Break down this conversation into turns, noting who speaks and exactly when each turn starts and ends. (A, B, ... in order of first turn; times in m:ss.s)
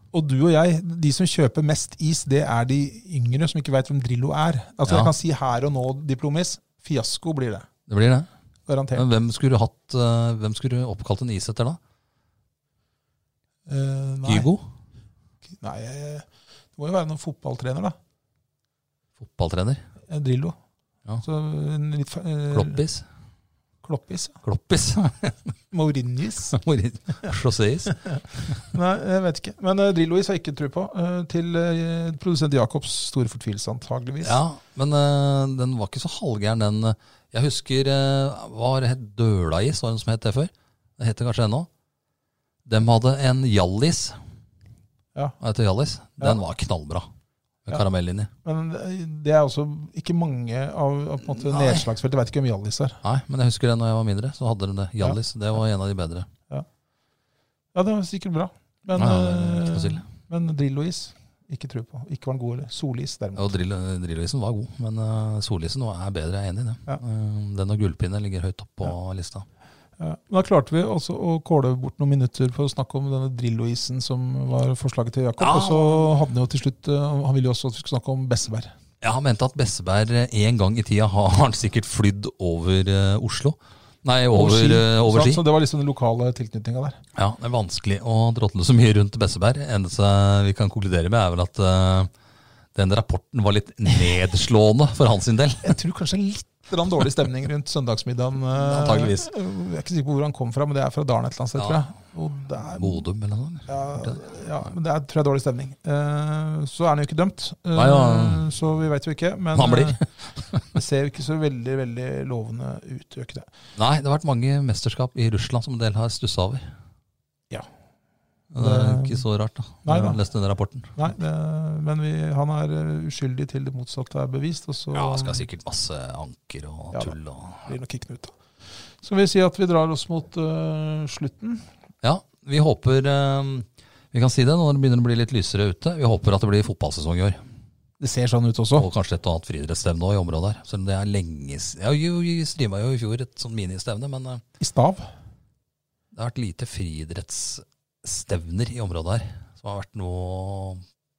0:00.1-0:07.7 A
0:04.9-0:05.1 B
0:07.9-0:08.3 B
0:08.7-0:09.1 A
0:09.0-0:11.8 B
0:13.7-0:14.5 A
0:14.3-0:14.6 B
0:15.6-0:18.0 A
0:19.2-0:19.8 B
0:20.1-0:20.6 A
0:21.2-0:22.8 A
0:22.5-0:23.0 B
0:23.8-0:24.4 A
0:24.4-0:25.5 B
0:25.7-0:26.6 A
0:26.5-0:28.7 B
0:28.0-0:34.4 A
0:34.2-0:41.7 B
0:42.7-0:44.2 B
0:45.4-0:47.1 B
0:47.7-0:48.3 B
0:48.4-0:53.0 A
0:51.4-0:51.9 B
0:53.0-0:56.3 B
0:57.7-1:03.5 A
0:59.0-1:00.1 B
1:03.4-1:09.4 B
1:10.0-1:18.7 A
1:15.4-1:16.1 B
1:19.0-1:25.4 B
1:24.3-1:27.0 A
1:27.2-1:32.1 B
1:32.8-1:35.8 B
1:35.6-1:43.0 A
1:38.5-1:39.3 B
1:41.6-1:41.8 B
1:42.7-1:44.2 B
1:43.7-1:50.0 A
1:47.8-1:48.5 B
1:49.6-1:50.7 B
1:50.7-1:53.5 A
1:53.8-1:56.6 B
1:58.5-2:00.9 B
1:58.6-1:59.2 A
1:59.8-2:00.2 A
2:01.0-2:05.5 A
2:04.9-2:07.7 B
2:06.9-2:08.3 A
2:09.0-2:11.6 A
2:12.0-2:17.4 B
2:18.0-2:18.9 A
2:18.8-2:24.4 B
2:24.6-2:25.1 A
2:26.1-2:30.8 B